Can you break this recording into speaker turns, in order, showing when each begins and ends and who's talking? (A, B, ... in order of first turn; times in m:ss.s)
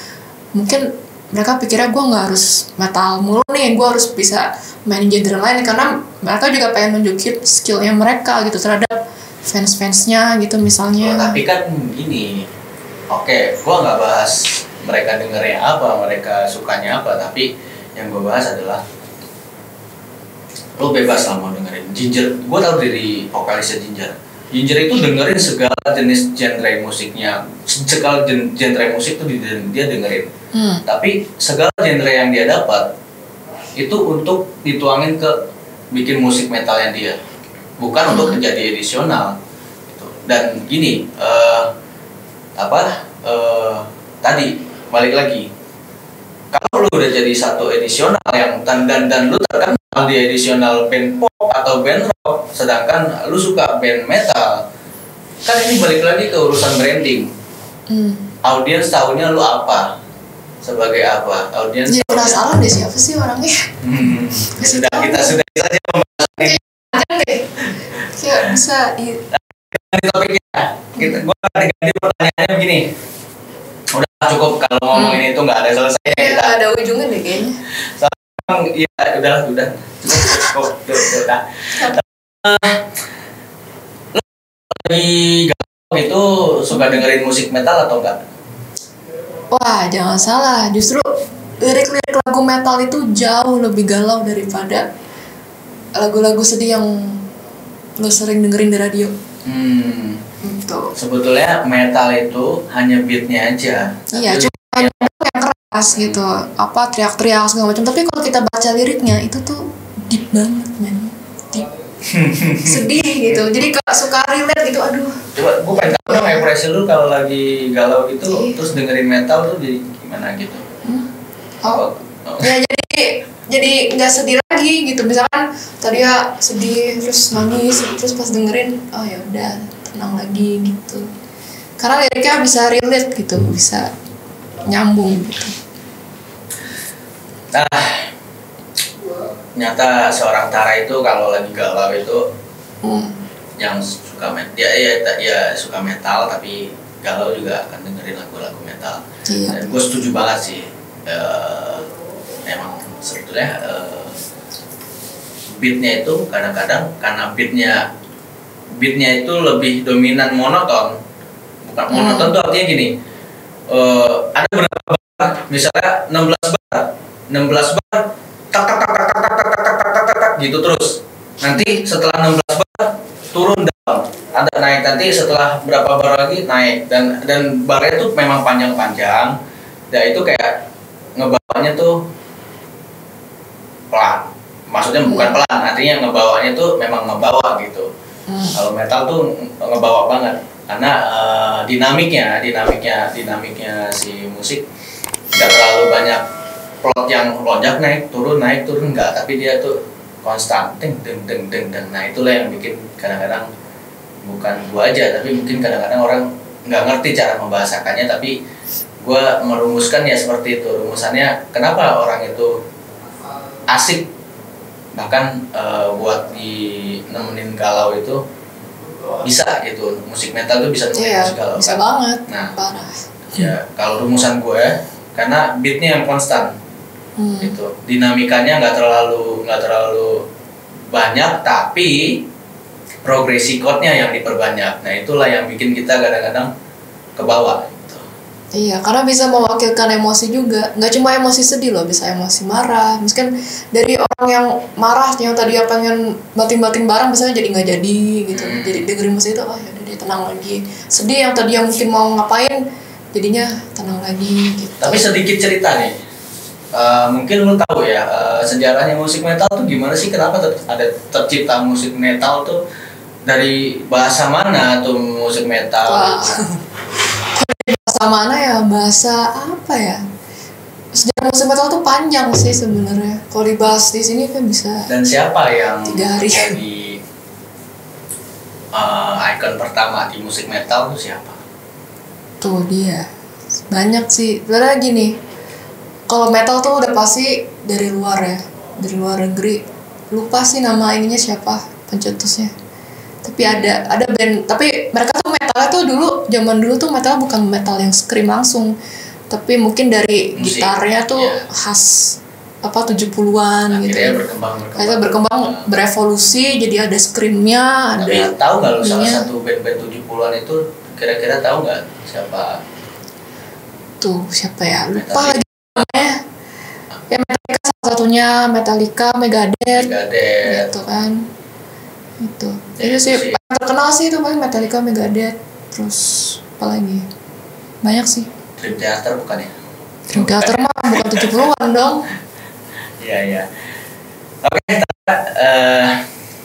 0:00.6-0:11.4 A
0:11.0-0:12.4 B
0:13.1-0:18.8 B
0:20.8-0:30.3 B
0:30.5-0:30.8 A
0:30.8-0:32.9 B
0:33.8-0:35.4 B
0:35.9-0:37.2 B
0:37.8-0:39.3 B
0:38.1-0:38.4 A
0:39.9-0:41.7 B
0:42.6-0:45.4 B
0:46.5-0:54.6 B
0:55.4-0:57.3 B
0:57.9-0:58.3 A
0:58.4-0:59.9 B
1:00.6-1:02.4 B
1:01.9-1:05.4 A
1:03.8-1:06.6 B
1:06.4-1:09.2 A
1:09.3-1:12.9 B
1:11.0-1:11.2 A
1:13.9-1:16.6 B
1:14.9-1:15.2 A
1:16.0-1:17.6 A
1:18.0-1:22.9 B
1:24.1-1:28.2 B
1:26.7-1:27.0 A
1:29.5-1:31.1 A
1:31.6-1:34.9 A
1:36.0-1:37.3 A
1:38.0-1:39.1 A
1:39.4-1:40.2 B
1:40.4-1:40.9 A
1:41.0-1:45.1 B
1:44.1-1:51.7 A
1:45.9-1:46.2 B
1:52.0-1:53.6 B
1:52.6-1:55.2 A
1:55.4-2:00.6 B
1:55.8-1:56.5 A
1:58.3-1:58.6 A
2:00.8-2:01.1 A
2:01.7-2:02.5 B
2:02.4-2:11.1 A
2:11.8-2:13.9 A
2:14.6-2:15.6 A
2:17.5-2:18.1 B
2:19.6-2:22.2 B
2:22.8-2:23.2 A
2:23.6-2:31.9 B
2:29.3-2:29.8 A
2:32.4-2:34.1 B
2:35.6-2:37.9 B
2:38.8-2:41.0 B
2:41.6-2:42.9 B
2:41.9-2:42.4 A
2:43.7-2:59.4 B
2:51.5-2:51.8 A
2:59.9-3:00.6 B
3:01.2-3:02.0 B
3:03.9-3:07.9 B
3:05.0-3:05.4 A
3:08.3-3:08.6 A
3:08.5-3:14.6 B
3:15.4-3:16.2 B
3:16.8-3:23.5 B
3:24.2-3:28.3 B
3:29.0-3:32.5 B
3:33.7-3:34.1 B
3:35.0-3:38.2 B
3:39.2-3:42.5 B
3:40.9-3:43.5 A
3:43.3-3:46.5 B
3:47.2-3:47.5 A
3:47.4-3:50.2 B
3:50.9-3:52.3 B
3:53.0-3:56.5 B
3:57.2-3:58.0 B
3:58.5-4:12.6 A
4:08.3-4:08.9 B
4:13.1-4:15.1 A
4:14.8-4:16.0 B
4:16.7-4:22.6 B
4:23.2-4:26.4 B
4:25.9-4:26.6 A
4:27.3-4:30.0 A
4:30.9-4:34.9 A
4:34.9-4:37.0 B
4:35.8-4:36.6 A
4:38.7-4:41.4 B
4:42.4-4:43.1 A
4:43.7-4:45.2 A
4:46.1-4:52.5 A
4:53.2-4:58.8 A
4:53.4-4:53.8 B
4:59.3-5:04.2 A
5:00.4-5:01.4 B
5:03.7-5:05.7 B
5:04.8-5:09.3 A
5:08.0-5:12.6 B
5:14.0-5:16.2 A
5:14.9-5:15.9 B
5:17.1-5:19.9 A
5:19.7-5:20.7 B
5:20.4-5:21.3 A
5:22.2-5:27.0 A
5:22.8-5:23.4 B
5:27.8-5:28.3 A
5:28.6-5:29.5 B
5:30.1-5:32.1 A
5:30.1-5:31.5 B
5:33.0-5:33.5 B
5:34.4-5:36.0 B